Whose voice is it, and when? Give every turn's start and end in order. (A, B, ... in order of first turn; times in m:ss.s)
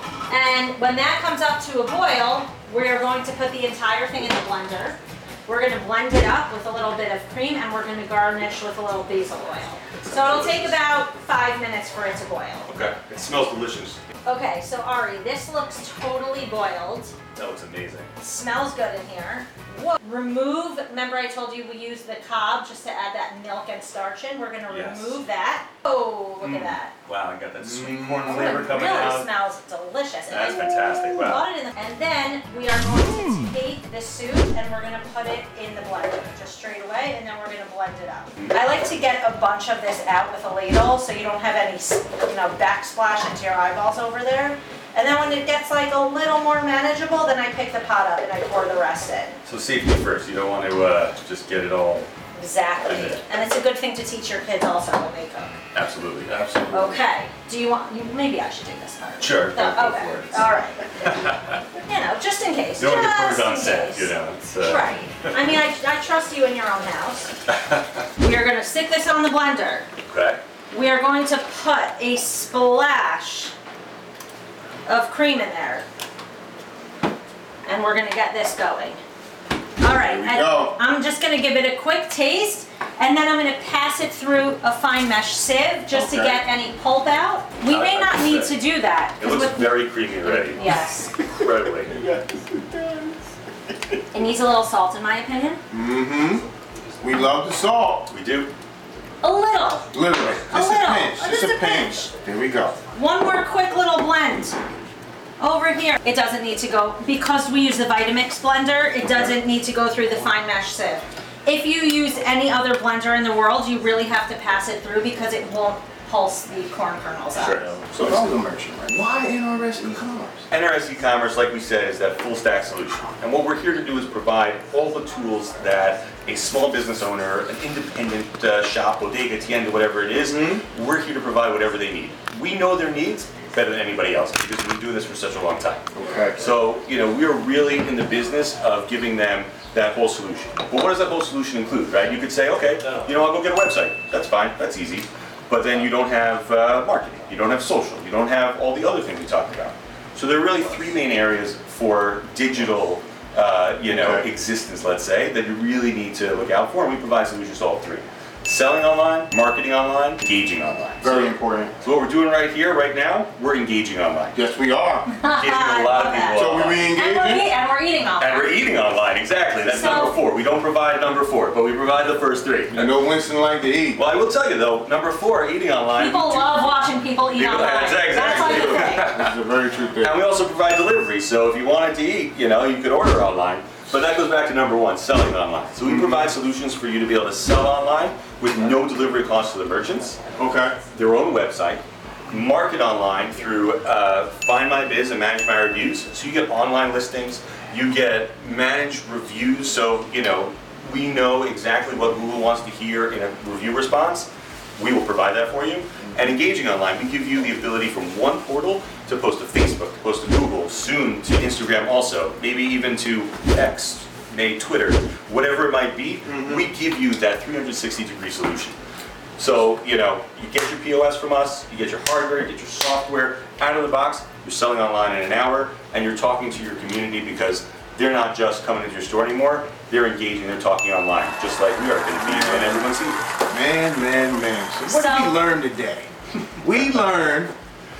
0:00.3-0:12.7 A
0:10.0-0:10.8 B
0:12.7-0:14.0 B
0:14.2-0:17.1 A
0:17.4-0:18.1 B
0:18.2-0:26.9 A
0:24.7-0:25.2 B
0:26.4-0:29.3 B
0:27.6-0:28.7 C
0:28.3-0:49.4 A
0:30.3-0:31.4 B
0:38.4-0:38.6 B
0:49.4-0:52.1 B
0:52.3-0:55.6 A
0:52.9-0:53.2 B
0:55.7-0:56.3 B
0:56.3-0:57.0 C
0:56.7-1:01.1 A
0:59.2-1:00.4 B
1:01.0-1:01.5 B
1:01.8-1:07.3 A
1:02.8-1:05.3 B
1:07.5-1:07.8 B
1:08.2-1:09.9 A
1:10.1-1:10.4 B
1:10.7-1:13.5 A
1:14.9-1:15.9 A
1:17.7-1:19.0 A
1:19.8-1:31.2 A
1:19.9-1:20.8 C
1:25.9-1:26.4 C
1:27.6-1:28.6 B
1:29.2-1:30.6 B
1:31.4-1:32.0 B
1:34.1-1:35.6 A
1:35.7-1:36.4 C
1:37.0-1:38.1 C
1:38.1-1:38.5 B
1:39.2-1:39.9 A
1:39.9-1:42.8 C
1:40.5-1:42.1 A
1:42.9-1:44.6 A
1:45.4-1:57.6 A
1:57.4-1:58.4 B
1:57.8-2:00.5 C
2:00.5-2:15.8 B
2:10.3-2:10.6 C
2:16.0-2:16.5 C
2:16.4-2:44.4 B
2:33.9-2:34.3 C
2:41.0-2:41.7 C
2:44.3-2:45.1 C
2:45.1-2:48.5 A
2:45.4-2:46.9 B
2:46.3-2:47.5 C
2:48.2-2:53.1 B
2:49.6-2:50.2 A
2:52.7-2:54.0 C
2:53.9-2:56.7 B
2:56.0-2:59.1 A
2:57.3-2:59.3 B
2:58.3-3:00.2 C
3:00.0-3:10.2 B
3:05.9-3:06.3 C
3:10.4-3:10.8 C
3:10.9-3:38.8 B
3:36.2-3:36.7 C
3:39.4-3:53.2 B
3:52.2-3:52.8 C
3:53.5-3:56.1 C
3:54.9-3:55.4 A
3:56.6-3:57.5 C